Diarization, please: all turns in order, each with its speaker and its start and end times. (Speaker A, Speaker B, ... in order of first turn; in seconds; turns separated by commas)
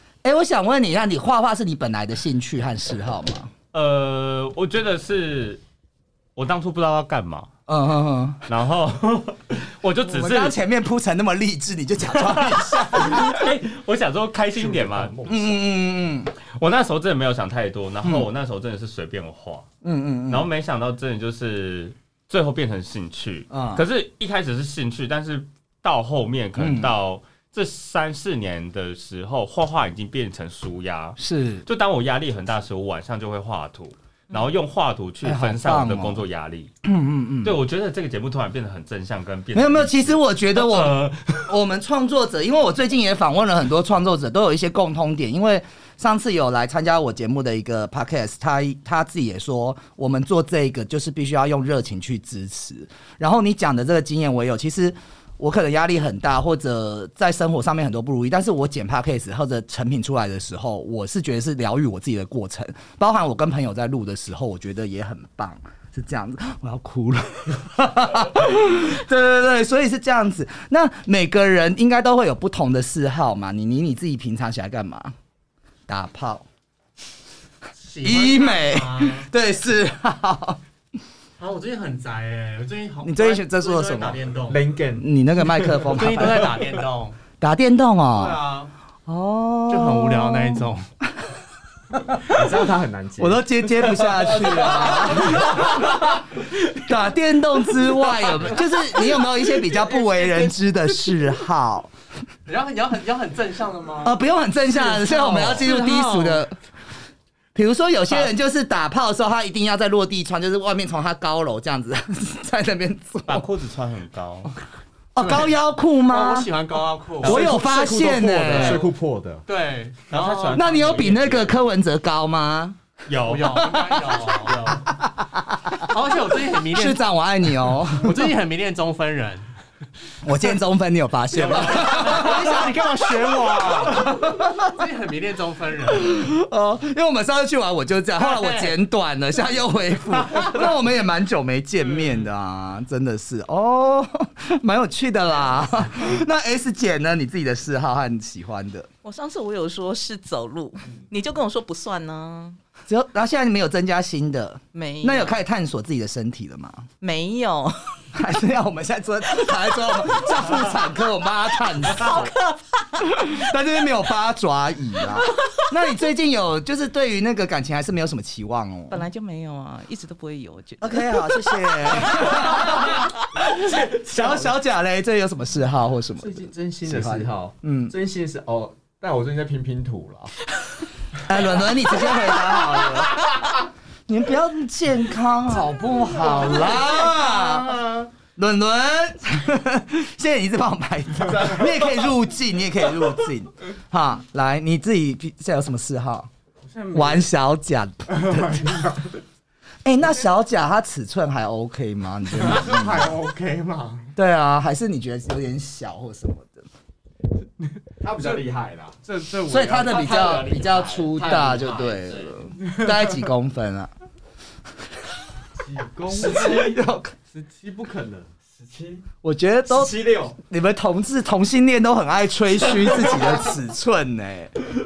Speaker A: 0.2-3.5, Speaker B: 3.7-5.6, Speaker B: 6.3-7.5, Speaker A: 7.7-8.4, Speaker B: 8.5-10.6, Speaker A: 10.0-13.5, Speaker B: 12.1-15.2, Speaker C: 14.5-15.5, Speaker A: 15.2-16.3, Speaker B: 16.5-19.7, Speaker A: 19.8-20.5, Speaker B: 20.3-36.7, Speaker A: 23.5-23.9, Speaker A: 26.6-26.9, Speaker A: 31.2-31.6, Speaker A: 35.2-36.2, Speaker A: 36.8-37.6, Speaker B: 37.4-41.5, Speaker A: 39.5-75.1, Speaker A: 75.9-76.4, Speaker D: 77.8-79.3, Speaker A: 78.0-80.6, Speaker D: 81.4-84.7, Speaker A: 83.0-84.2, Speaker C: 84.5-85.1, Speaker A: 85.0-86.6, Speaker C: 85.6-85.9, Speaker D: 85.9-87.2, Speaker A: 87.4-88.4, Speaker D: 88.1-88.7, Speaker A: 89.0-90.7, Speaker D: 89.7-90.9, Speaker C: 92.2-93.4, Speaker A: 93.2-101.9, Speaker C: 94.2-95.3, Speaker D: 95.0-95.4, Speaker D: 99.9-100.5, Speaker D: 102.5-106.5, Speaker A: 104.0-106.5, Speaker A: 107.5-113.5, Speaker B: 113.2-114.5, Speaker A: 115.1-116.5, Speaker D: 115.2-115.5, Speaker D: 116.1-117.5, Speaker A: 117.2-118.9, Speaker C: 117.2-119.4, Speaker D: 118.5-118.9, Speaker D: 119.5-121.2, Speaker B: 120.1-121.6, Speaker A: 120.5-122.8, Speaker B: 123.1-123.8, Speaker D: 123.2-124.8, Speaker A: 123.6-125.9, Speaker D: 125.8-127.0, Speaker A: 126.7-128.3, Speaker D: 127.9-129.5, Speaker A: 130.2-132.8, Speaker D: 131.3-136.2, Speaker A: 133.8-134.7, Speaker A: 135.9-148.9, Speaker D: 138.2-138.7, Speaker E: 149.0-152.6, Speaker A: 152.9-156.9, Speaker E: 154.7-155.4, Speaker E: 157.0-158.0, Speaker A: 158.1-162.3, Speaker E: 162.0-162.6, Speaker A: 163.0-169.1, Speaker E: 168.9-172.9, Speaker A: 170.8-177.9, Speaker C: 173.5-174.5, Speaker C: 176.2-180.3, Speaker A: 181.2-183.4, Speaker A: 184.1-196.3, Speaker C: 187.3-188.1, Speaker C: 196.7-197.0, Speaker A: 196.9-198.9, Speaker C: 198.2-199.1, Speaker A: 199.8-203.2, Speaker C: 202.4-204.1, Speaker A: 204.2-206.7, Speaker C: 208.0-212.9, Speaker A: 209.4-213.9, Speaker C: 215.6-219.0, Speaker A: 216.1-217.1, Speaker A: 219.2-224.6, Speaker C: 219.7-220.3